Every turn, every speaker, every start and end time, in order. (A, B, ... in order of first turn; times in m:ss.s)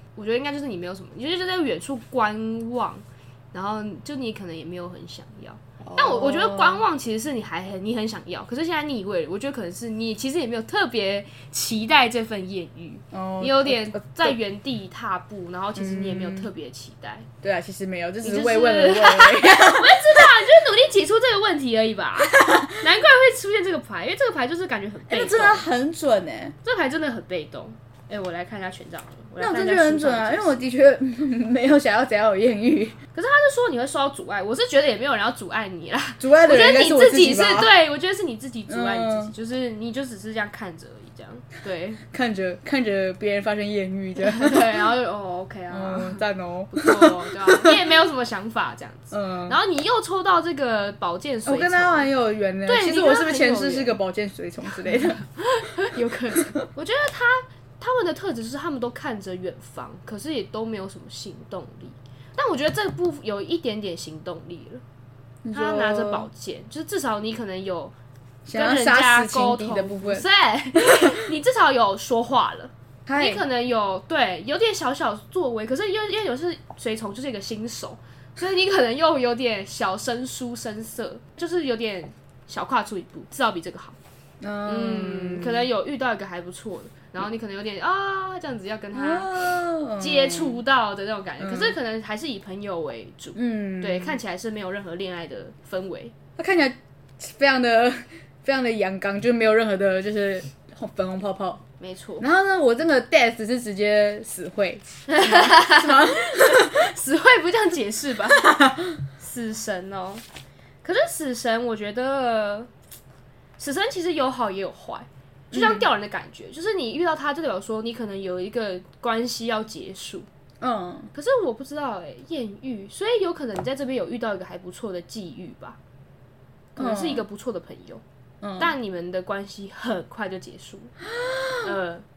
0:00.1-0:17.3 A
0:05.8-0:06.8 B
0:13.1-0:14.4 B
0:15.8-0:16.5 B
0:17.4-0:20.3 B
0:18.2-0:25.6 A
0:22.3-0:22.7 B
0:25.1-0:26.5 B
0:26.6-0:30.6 A
0:29.4-0:33.0 B
0:33.1-0:42.0 A
0:36.2-0:37.7 B
0:38.7-0:39.3 B
0:42.1-0:44.8 B
0:44.2-0:52.1 A
0:45.7-0:47.8 B
0:49.1-0:49.6 B
0:51.4-0:55.2 B
0:52.6-0:54.0 A
0:55.2-1:04.8 A
0:55.9-0:56.6 B
1:05.4-1:06.3 B
1:05.5-1:07.9 A
1:08.4-1:10.2 B
1:08.5-1:24.0 A
1:10.8-1:11.1 B
1:13.0-1:13.4 B
1:24.4-1:25.7 B
1:24.6-1:36.1 A
1:28.9-1:30.6 B
1:31.4-1:31.8 B
1:33.4-1:34.2 B
1:36.4-1:41.6 B
1:41.8-1:42.3 A
1:42.2-1:46.9 B
1:45.1-1:50.2 A
1:48.4-1:48.8 B
1:50.8-1:52.7 A
1:53.6-2:00.3 A
1:55.5-1:55.9 B
2:00.6-2:01.1 B
2:01.1-2:05.8 A
2:06.7-2:08.0 A
2:06.8-2:07.2 B
2:08.4-2:08.7 B
2:08.6-2:10.9 A
2:11.1-2:11.7 B
2:11.6-2:12.0 A